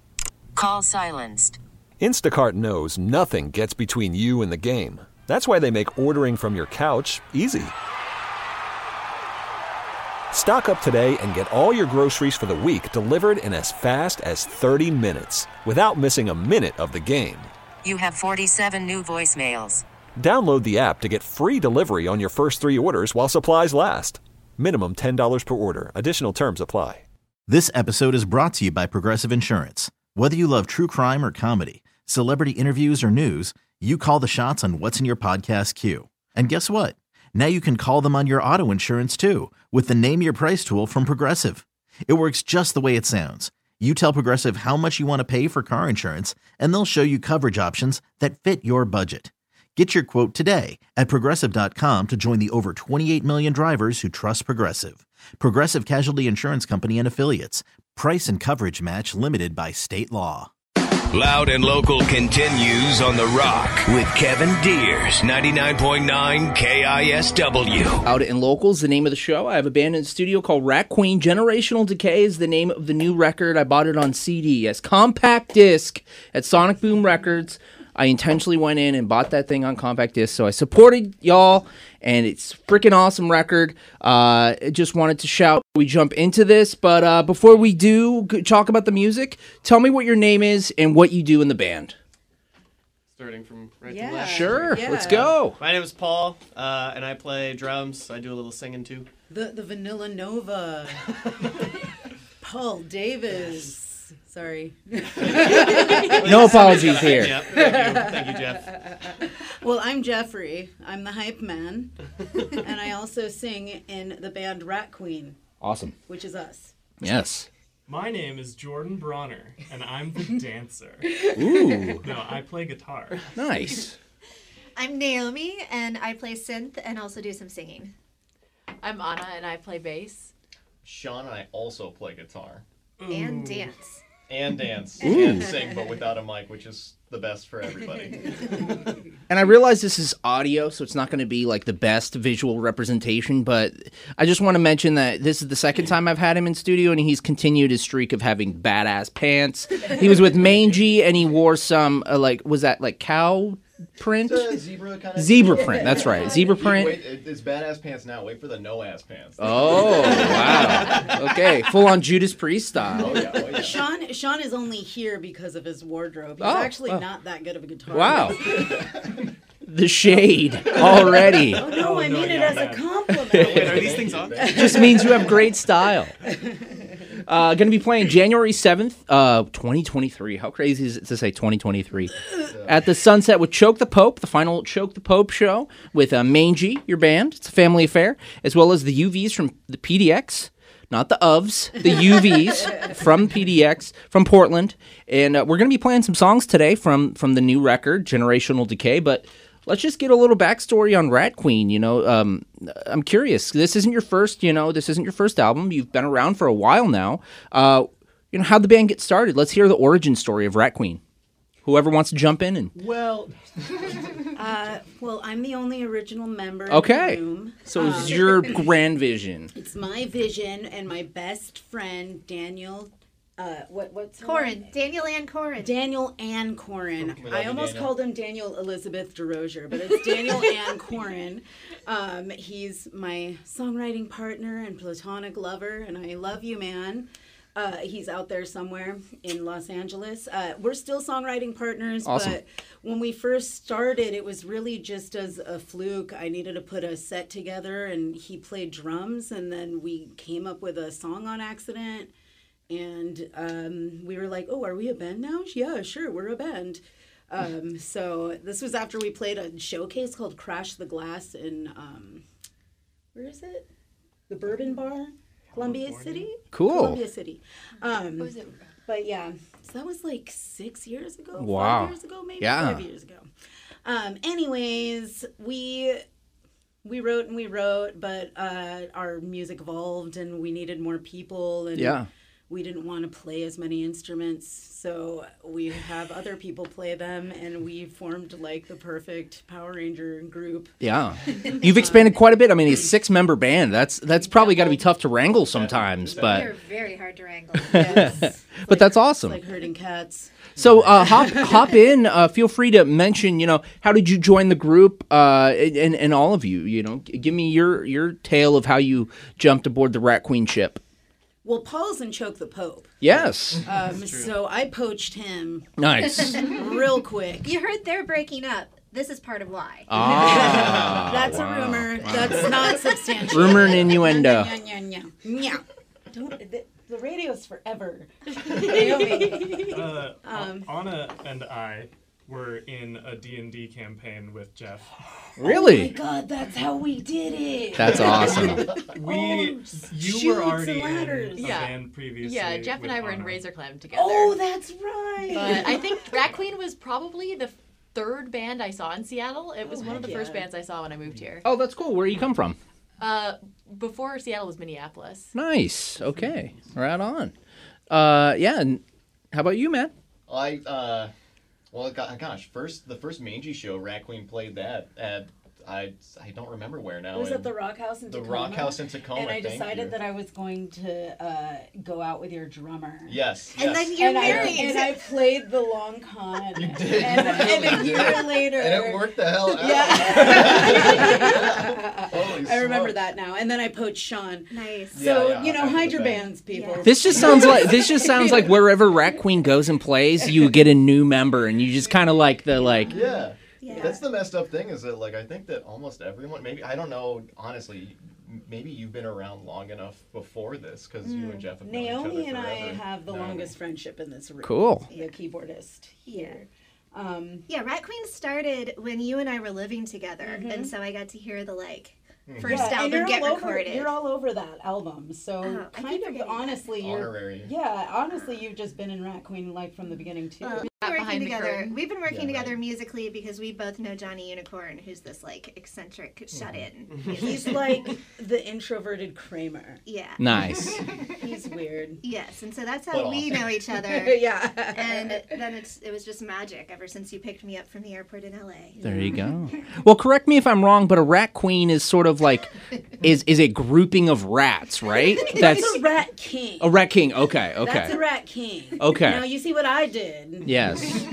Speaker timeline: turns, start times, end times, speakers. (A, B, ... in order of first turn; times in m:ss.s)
0:00.5-0:01.6 A
0:02.0-0:07.7 B
0:10.3-0:17.5 B
0:17.8-0:19.8 A
0:20.2-0:27.0 B
0:27.5-1:00.5 C
1:01.1-1:08.0 D
1:08.0-1:31.9 E
1:33.1-1:39.1 F
1:33.8-1:35.3 G
1:34.2-1:35.6 E
1:39.3-1:41.1 G
1:42.4-1:55.4 G
1:45.4-1:48.8 F
1:46.1-1:47.5 E
1:46.6-1:47.2 H
1:55.6-1:56.0 E
1:56.1-1:56.7 G
1:57.0-1:57.5 E
1:57.9-2:01.2 I
2:01.3-2:02.0 E
2:02.0-2:03.3 I
2:03.3-2:04.0 E
2:04.8-2:07.9 J
2:08.8-2:10.3 K
2:10.8-2:12.6 H
2:13.0-2:13.8 I
2:13.1-2:14.0 J
2:14.3-2:18.8 H
2:15.0-2:15.5 E
2:19.3-2:34.6 E
2:34.2-2:41.1 H
2:35.2-2:37.0 E
2:35.6-2:36.4 G
2:39.4-2:43.3 E
2:40.1-2:40.8 G
2:42.9-2:43.8 H
2:43.0-2:48.9 G
2:46.4-2:47.0 E
2:47.9-2:48.5 E
2:48.5-2:49.0 H
2:49.6-2:51.7 E
2:51.4-2:55.4 G
2:51.5-2:53.0 I
2:53.1-2:53.8 E
2:53.3-2:54.5 F
2:53.3-2:55.1 H
2:54.4-2:56.1 E
2:57.2-3:31.0 E
3:02.4-3:02.8 H
3:31.6-3:32.7 E
3:32.7-3:34.2 I
3:34.4-3:38.6 G
3:36.7-3:39.5 E
3:39.5-3:44.7 G
3:44.2-3:45.8 J
3:45.6-4:12.1 G
3:47.0-3:48.0 H
4:02.0-4:02.4 E
4:12.7-4:22.2 G
4:23.1-4:23.7 G
4:24.3-4:33.3 G
4:25.5-4:26.3 I
4:26.5-4:27.0 E
4:27.8-4:28.6 J
4:31.4-4:32.8 E
4:33.8-4:36.0 G
4:36.8-4:50.7 G
4:41.8-4:42.1 E
4:50.8-4:56.5 E
4:51.5-4:52.2 G
4:55.5-4:56.6 H
4:56.2-4:58.1 J
4:57.5-4:59.4 E
4:57.7-5:00.4 G
5:00.6-5:10.8 E
5:00.6-5:00.8 H
5:01.2-5:01.7 G
5:11.4-5:13.0 G
5:13.0-5:13.6 E
5:13.6-5:17.5 G
5:13.9-5:14.4 F
5:15.8-5:16.5 E
5:16.1-5:16.7 J
5:17.4-5:20.4 J
5:19.9-5:22.5 E
5:20.0-5:30.7 G
5:23.3-5:24.5 E
5:29.3-5:35.0 I
5:35.4-5:35.9 E
5:35.4-5:41.6 G
5:37.8-5:38.7 E
5:38.4-5:43.4 I
5:41.4-5:44.4 K
5:43.9-5:46.0 G
5:45.3-5:51.4 K
5:49.6-5:50.5 G
5:51.4-5:52.6 E
5:53.0-5:55.3 K
5:55.3-5:57.3 E
5:57.9-5:58.8 E
5:59.3-5:59.9 E
6:00.3-6:01.1 H
6:01.7-6:07.5 H
6:07.1-6:13.2 G
6:08.1-6:10.0 H
6:13.1-6:14.5 H
6:13.6-6:15.2 J
6:14.0-6:28.7 G
6:16.5-6:23.0 H
6:24.5-6:25.0 J
6:24.9-6:26.4 H
6:26.5-6:27.6 J
6:26.8-6:33.0 E
6:32.2-6:34.0 G
6:32.9-6:43.6 H
6:33.6-6:34.1 J
6:41.0-6:41.5 J
6:41.6-6:47.5 G
6:44.4-6:44.9 E
6:44.9-6:45.2 J
6:46.1-6:46.4 J
6:47.5-6:53.9 J
6:50.2-6:50.7 G
6:52.3-6:52.8 H
6:52.4-7:00.7 G
6:55.4-6:56.7 J
6:56.7-6:57.5 H
6:58.1-6:58.4 J
7:00.4-7:08.0 J
7:00.8-7:01.8 K
7:02.0-7:02.7 H
7:06.3-7:06.7 H
7:06.9-7:07.2 F
7:07.2-7:09.8 G
7:09.8-7:10.8 J
7:10.2-7:10.8 E
7:11.2-7:12.0 G
7:12.0-7:19.1 J
7:12.9-7:13.6 H
7:13.8-7:15.4 G
7:18.8-7:25.8 E
7:18.8-7:19.2 G
7:25.2-7:26.8 G
7:26.6-7:28.0 E
7:27.6-7:30.6 G
7:28.8-7:29.3 E
7:30.4-7:31.0 E